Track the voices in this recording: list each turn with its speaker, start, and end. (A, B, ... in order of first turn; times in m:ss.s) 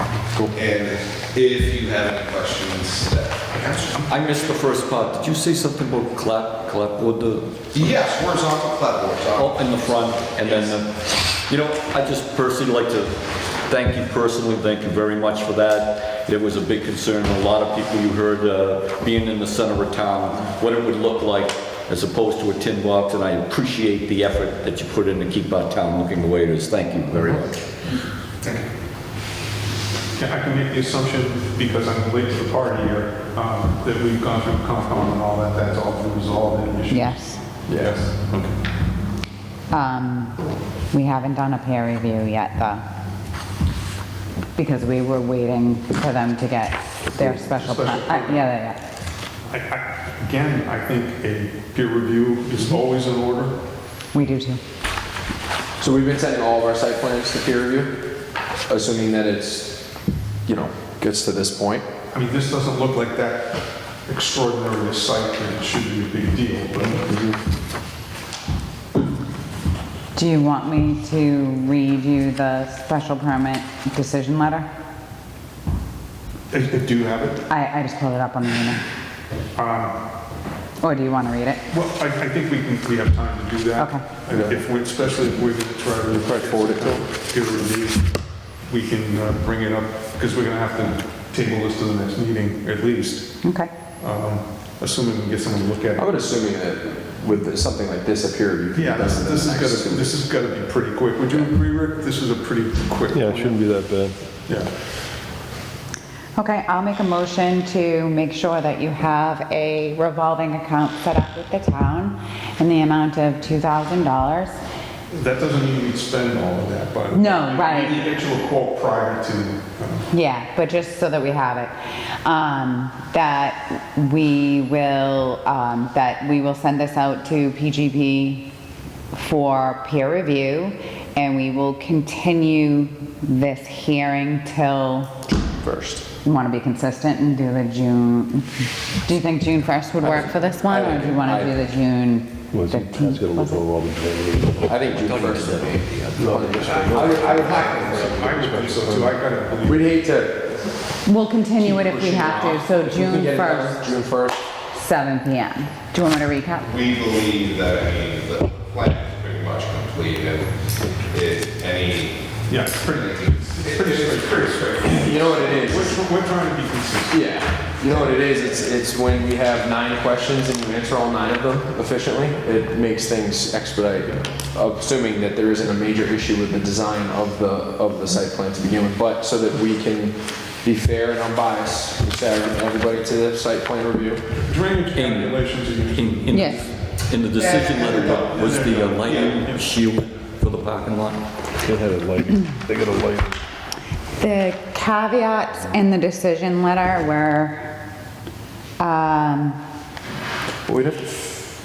0:00.5-0:04.1 A
0:04.1-0:07.9 B
0:07.7-0:10.8 A
0:09.3-0:27.6 B
0:30.2-0:38.6 C
0:36.9-0:37.4 D
0:37.7-0:38.1 E
0:39.7-0:40.4 D
0:40.9-0:42.8 D
0:44.6-0:48.8 D
0:47.2-0:48.4 C
0:49.5-0:53.6 C
0:54.1-0:54.6 D
0:55.8-0:58.0 E
0:58.7-0:59.8 E
1:00.5-1:01.9 E
1:02.1-1:07.1 C
1:07.0-1:07.4 E
1:10.1-1:14.7 D
1:16.5-1:17.4 C
1:17.5-1:18.8 D
1:19.6-1:20.0 C
1:20.8-1:21.6 D
1:21.7-1:28.1 C
1:23.8-1:24.0 D
1:24.3-1:24.6 E
1:26.2-1:27.1 E
1:28.7-1:33.3 C
1:33.4-1:33.7 D
1:34.0-1:36.2 C
1:36.0-1:40.2 E
1:38.7-1:43.6 C
1:43.1-1:44.2 F
1:44.5-1:44.7 C
1:46.4-1:54.6 D
1:55.1-2:00.1 C
1:57.1-1:58.1 D
2:00.1-2:08.5 D
2:09.1-2:15.1 D
2:15.5-2:16.1 E
2:16.2-2:18.5 D
2:19.0-2:23.7 D
2:20.0-2:21.6 E
2:22.5-2:25.5 F
2:24.6-2:28.5 E
2:24.9-2:26.3 B
2:26.1-2:29.2 F
2:26.6-2:29.9 C
2:27.3-2:27.8 A
2:29.6-2:30.8 E
2:31.0-2:33.9 D
2:31.6-2:34.5 E
2:34.7-2:36.7 D
2:36.6-2:45.6 A
2:42.5-2:47.2 C
2:45.0-2:46.0 E
2:47.1-3:04.3 E
2:47.8-2:48.1 C
3:04.4-3:09.7 C
3:04.9-3:11.2 B
3:06.3-3:06.7 D
3:11.6-3:13.4 F
3:14.2-3:17.7 D
3:18.8-3:19.6 D
3:20.7-3:21.4 E